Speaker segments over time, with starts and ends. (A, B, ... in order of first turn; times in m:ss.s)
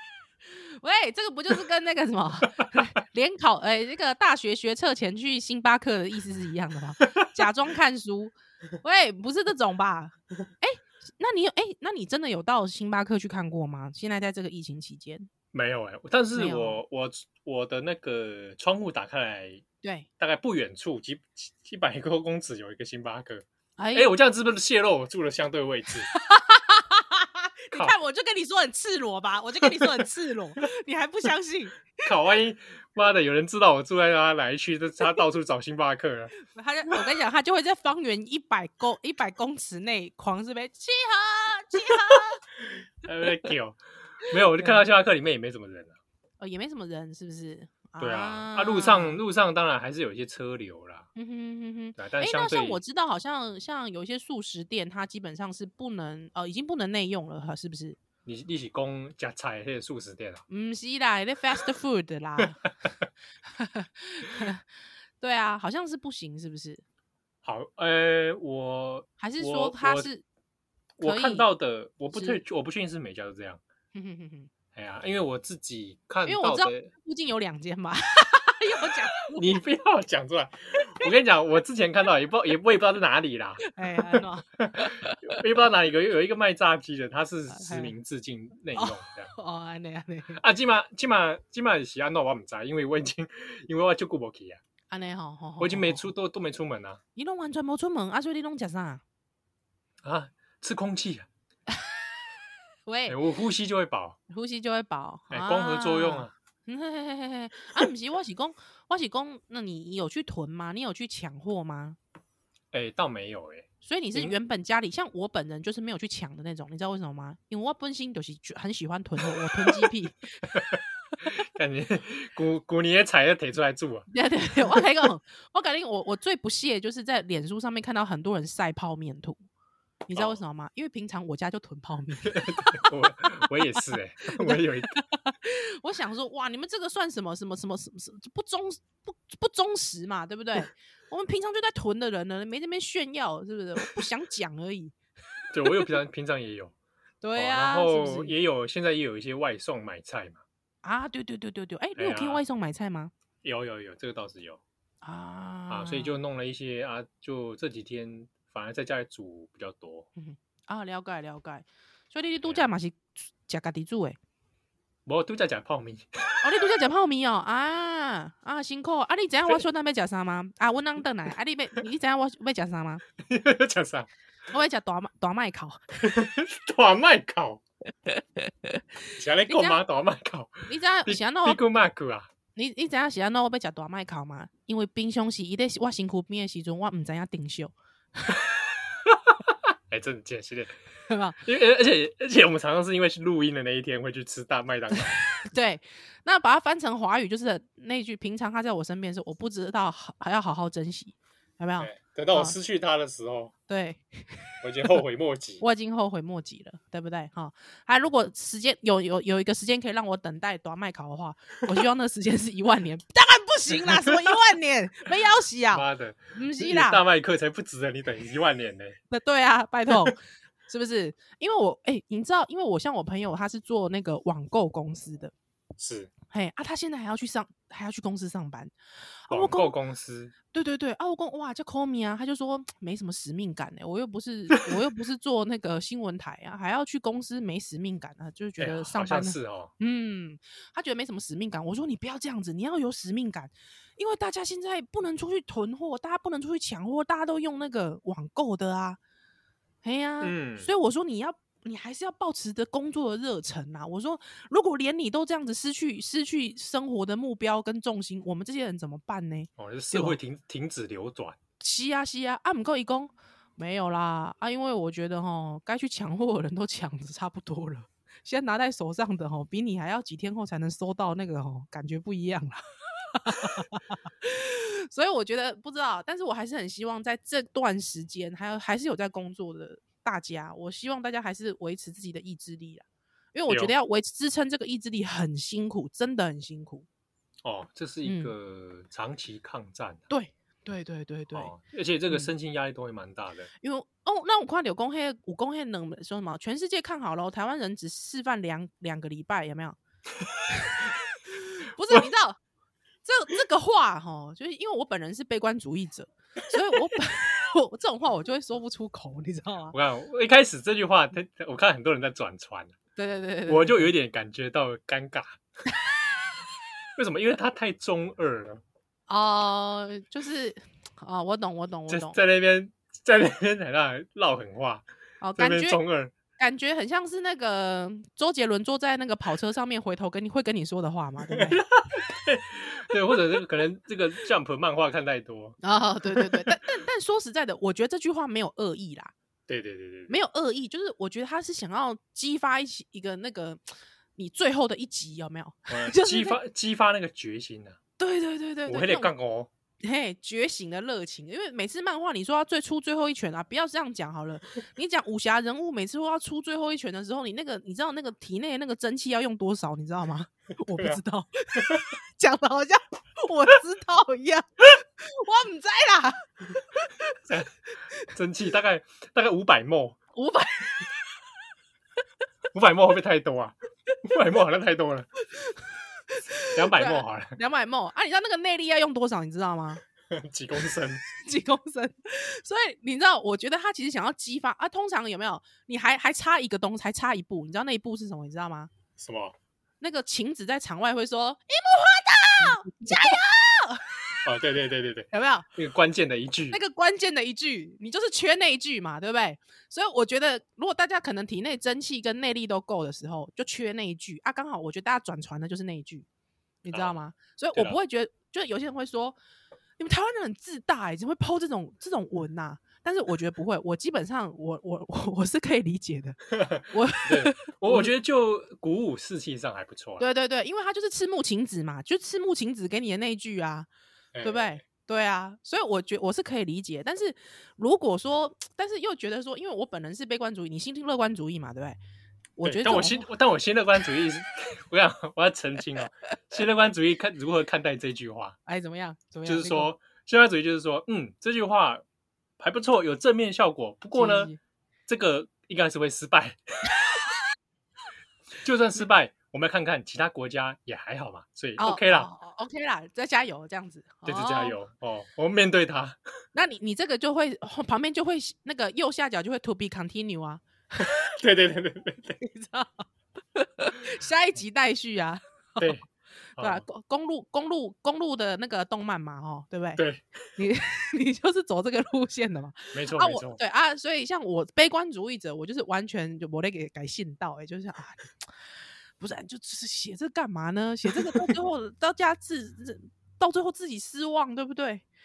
0:00.5-0:15.3 A
0:15.5-0:19.6 B
0:16.3-0:16.8 A
0:19.8-0:20.1 A
0:20.2-0:26.1 B
0:23.8-0:24.1 A
0:26.1-0:31.9 A
0:29.6-0:29.9 B
0:32.0-0:36.3 B
0:36.4-0:42.4 A
0:41.9-0:46.0 B
0:46.4-0:49.2 A
0:48.0-0:51.1 B
0:51.2-0:58.0 A
0:52.0-0:52.8 B
0:58.2-1:00.4 B
1:00.5-1:02.6 A
1:03.5-1:04.6 A
1:05.2-1:06.8 A
1:07.4-1:10.1 B
1:09.2-1:10.2 A
1:11.0-1:13.6 B
1:11.0-1:11.5 A
1:12.1-1:12.4 A
1:13.9-1:14.5 A
1:14.7-1:16.9 B
1:16.2-1:19.6 A
1:19.3-1:29.3 B
1:23.6-1:25.1 A
1:27.5-1:27.9 A
1:28.7-1:30.4 A
1:30.4-1:34.6 B
1:34.9-1:36.1 A
1:35.6-1:37.0 B
1:37.2-1:39.0 A
1:40.0-1:41.3 B
1:42.8-1:43.2 A
1:43.1-1:44.2 B
1:44.3-1:52.0 A
1:45.3-1:46.3 B
1:52.7-1:54.3 B
1:53.8-2:00.5 A
1:59.4-1:59.9 B
2:00.5-2:04.1 B
2:04.1-2:09.4 A
2:10.1-2:13.3 A
2:12.3-2:14.9 B
2:14.3-2:25.0 A
2:25.5-2:26.7 B
2:27.2-2:28.3 A
2:27.4-2:30.4 B
2:30.8-2:33.1 A
2:32.0-2:32.4 B
2:33.4-2:34.6 B
2:35.0-2:36.1 A
2:35.7-2:40.1 B
2:40.2-2:44.2 A
2:45.0-2:46.4 B
2:46.4-2:53.0 A
2:53.2-2:54.1 B
2:54.5-2:56.2 A
2:56.0-2:57.6 B
2:59.2-3:02.3 B
2:59.5-2:59.8 A
3:00.7-3:01.6 A
3:02.5-3:08.4 A
3:09.1-3:10.8 B
3:11.0-3:11.4 A
3:11.4-3:15.2 B
3:15.3-3:22.6 A
3:21.8-3:23.5 B
3:23.7-3:24.5 A
3:24.6-3:25.6 B
3:25.6-3:37.0 A
3:33.7-3:34.1 B
3:35.7-3:39.0 B
3:39.1-3:45.3 A
3:45.8-3:46.1 B
3:46.3-3:48.7 A
3:49.2-3:49.7 A
3:49.3-3:50.3 B
3:50.5-4:09.0 A
3:58.6-3:59.7 B
4:09.8-4:20.2 A
4:10.2-4:10.7 B
4:19.6-4:21.4 B
4:21.6-4:46.8 A
4:43.5-4:43.7 B
4:47.4-4:50.0 B
4:48.0-4:48.3 A
4:50.1-4:51.5 A
4:51.3-4:53.5 B
4:53.6-4:59.8 A
5:00.5-5:02.4 A
5:03.0-5:09.7 A
5:09.7-5:12.7 B
5:13.0-5:13.9 A
5:13.5-5:15.4 B
5:17.0-5:18.6 B
5:19.1-5:22.2 A
5:21.9-5:24.8 B
5:25.2-5:25.8 A
5:25.4-5:26.1 B
5:26.4-5:31.6 A
5:31.3-5:35.6 B
5:35.6-5:39.1 A
5:36.1-5:36.6 B
5:39.5-5:40.2 B
5:40.1-5:43.6 A
5:44.2-5:46.4 A
5:45.7-5:47.8 B
5:48.0-5:49.1 A
5:48.7-5:49.5 B
5:49.8-6:07.2 A
6:01.6-6:01.8 B
6:07.2-6:10.0 B
6:10.1-6:11.0 A
6:12.5-6:15.1 B
6:15.2-6:19.8 A
6:16.5-6:17.3 B
6:20.1-6:21.0 B
6:21.1-6:28.7 A
6:29.0-6:29.3 B
6:29.8-6:33.9 A
6:32.4-6:33.2 B
6:34.2-6:36.6 B
6:35.1-6:35.5 A
6:36.5-6:46.0 A
6:46.6-6:49.2 A
6:46.7-6:47.0 B
6:49.8-6:57.9 A
6:56.4-7:00.0 B
7:00.0-7:03.7 A
7:04.1-7:04.6 B
7:04.2-7:11.8 A
7:12.4-7:13.1 A
7:12.4-7:18.4 B
7:18.4-7:19.7 A
7:19.2-7:21.8 B
7:22.4-7:24.3 B
7:23.9-7:24.4 A
7:24.9-7:26.7 B
7:28.4-7:32.1 B
7:31.6-7:34.6 A
7:34.0-7:36.0 B
7:36.3-7:40.9 A
7:40.8-7:42.2 B
7:42.2-7:45.8 A
7:45.6-7:45.8 B
7:46.4-7:46.6 B
7:46.4-7:49.8 A
7:49.8-7:50.3 B
7:50.4-7:58.3 A
7:52.7-7:53.4 B
7:59.0-8:04.8 A
8:00.9-8:01.4 B